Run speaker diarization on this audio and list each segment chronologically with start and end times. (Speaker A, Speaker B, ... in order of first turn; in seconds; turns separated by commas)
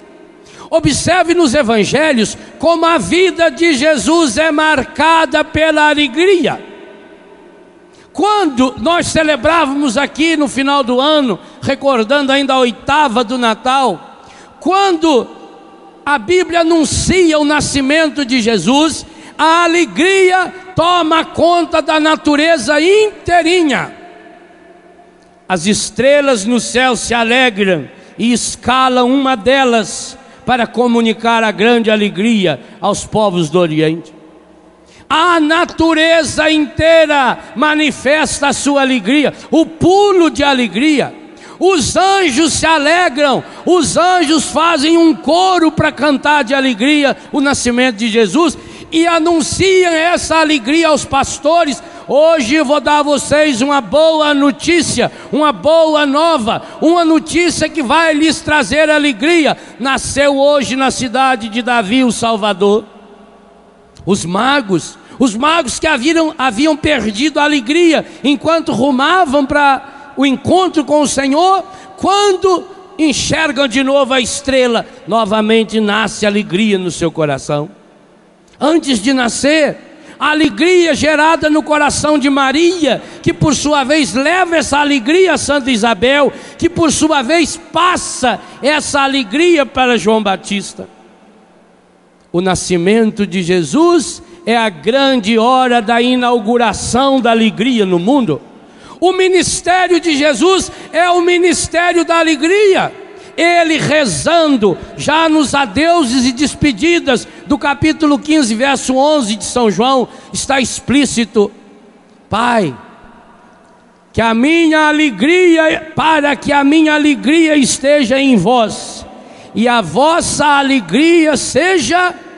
Speaker A: 0.7-6.6, Speaker A: 8.1-14.0, Speaker A: 14.6-15.3, Speaker A: 16.1-23.9, Speaker A: 25.5-34.1, Speaker A: 35.1-62.9, Speaker A: 64.0-77.7, Speaker A: 78.6-90.9, Speaker A: 92.3-98.4, Speaker A: 99.0-111.5, Speaker A: 112.3-112.8, Speaker A: 114.1-122.1